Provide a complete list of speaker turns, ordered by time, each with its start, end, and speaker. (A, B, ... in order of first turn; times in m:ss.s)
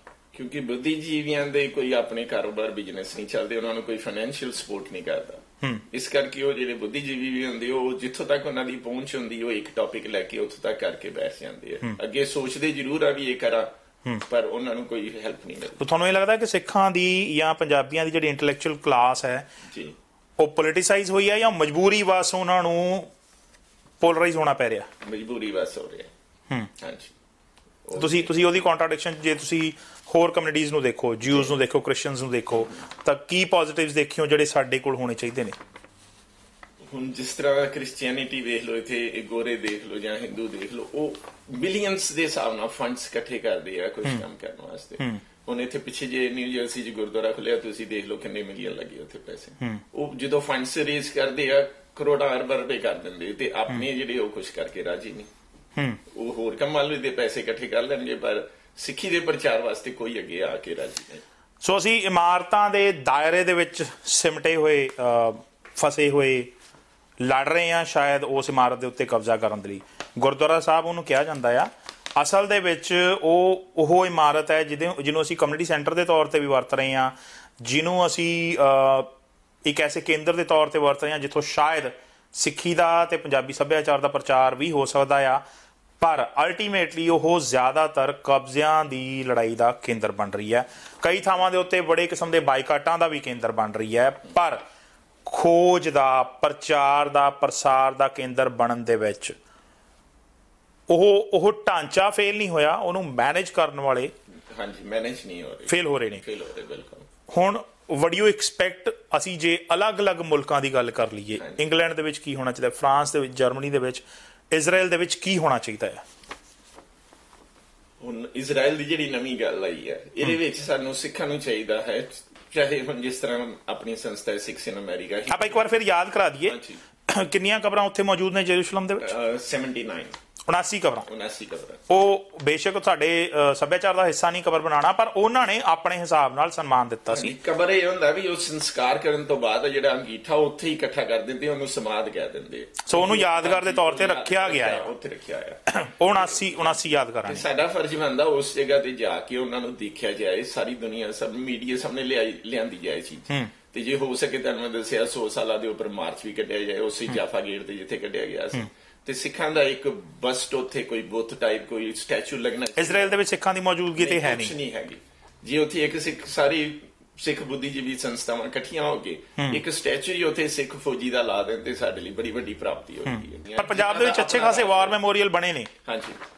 0:00.3-0:13.7 A
0:14.3-0:15.8 A
0:15.8-0:19.5 B
0:19.7-0:20.0 A
0:20.4-0:23.1 B
0:24.0-0:24.9 B
0:25.0-0:26.1 A
0:26.8-0:27.1 A
0:27.9-0:28.4 A
0:28.0-0:35.6 B
0:31.3-0:31.6 A
0:32.6-0:32.8 A
0:36.9-0:55.3 A
0:56.1-1:01.2 A
1:01.6-1:06.5 B
1:07.2-1:19.1 B
1:19.6-1:25.4 B
1:26.0-1:34.6 B
1:35.2-1:39.4 B
1:40.9-1:44.1 B
1:44.5-1:47.1 A
1:45.7-1:46.2 B
1:47.3-1:56.0 B
1:58.0-2:05.7 A
2:05.3-2:06.6 B
2:06.4-2:06.8 A
2:07.1-2:09.1 B
2:09.0-2:10.1 A
2:10.5-2:11.1 B
2:11.1-2:11.8 A
2:11.9-2:17.3 B
2:17.1-2:43.2 A
2:22.9-2:24.9 B
2:25.7-2:27.4 B
2:42.8-2:44.6 B
2:44.0-2:55.0 A
2:53.1-2:55.7 B
2:55.8-2:56.2 A